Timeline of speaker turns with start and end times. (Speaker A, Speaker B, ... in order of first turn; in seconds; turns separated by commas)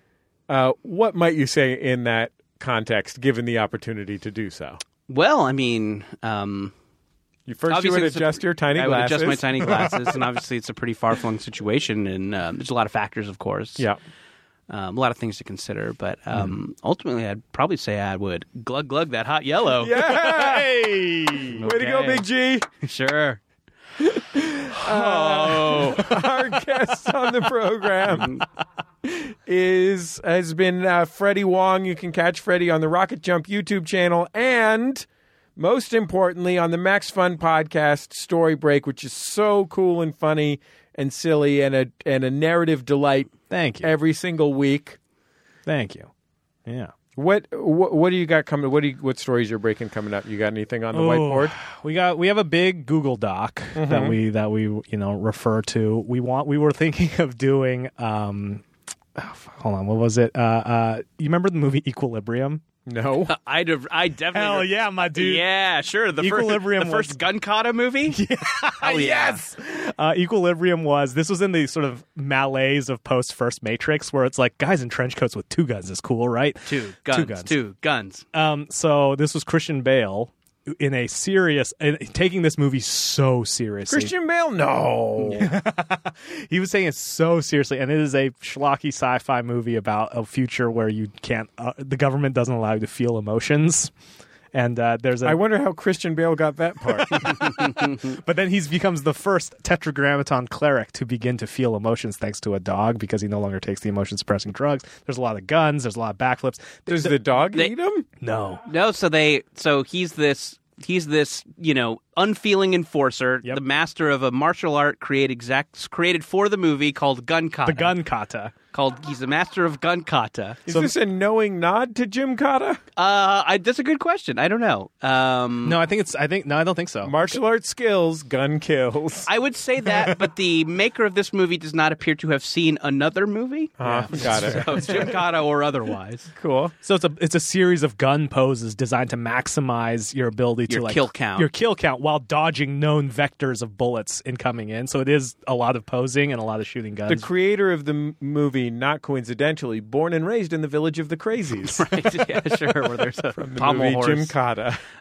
Speaker A: 0.5-4.8, Speaker B: 5.1-6.7, Speaker A: 7.5-10.1, Speaker B: 7.7-13.9, Speaker B: 14.7-20.2, Speaker A: 19.8-22.7, Speaker C: 20.1-21.6, Speaker B: 21.6-22.3, Speaker B: 22.8-23.4, Speaker A: 24.0-28.4, Speaker B: 24.8-26.1, Speaker C: 26.0-26.3, Speaker A: 29.0-35.1, Speaker A: 35.6-45.0, Speaker C: 43.5-43.9, Speaker C: 45.7-46.1, Speaker C: 46.7-46.9, Speaker A: 47.2-51.5, Speaker C: 50.9-62.6, Speaker A: 53.8-54.2, Speaker A: 62.9-63.3, Speaker B: 63.3-68.2, Speaker C: 64.3-65.5, Speaker C: 66.2-67.2, Speaker C: 68.1-77.6, Speaker B: 68.8-69.4, Speaker B: 76.7-78.2, Speaker C: 78.3-84.1, Speaker A: 83.9-85.5, Speaker C: 85.3-93.9, Speaker C: 94.5-95.4, Speaker A: 95.2-97.6, Speaker C: 97.0-107.2, Speaker A: 106.9-108.0, Speaker C: 108.2-108.6, Speaker B: 108.7-118.0, Speaker C: 117.7-118.5, Speaker B: 118.7-120.6, Speaker A: 120.7-122.8, Speaker B: 123.0-125.8, Speaker C: 125.6-127.2, Speaker A: 127.0-129.3, Speaker B: 129.3-136.3, Speaker C: 129.9-130.3, Speaker A: 133.8-135.2, Speaker C: 133.8-135.2, Speaker A: 136.3-136.7, Speaker C: 136.8-147.3, Speaker B: 140.7-141.5, Speaker A: 147.1-151.9, Speaker B: 151.7-154.3, Speaker A: 153.4-154.8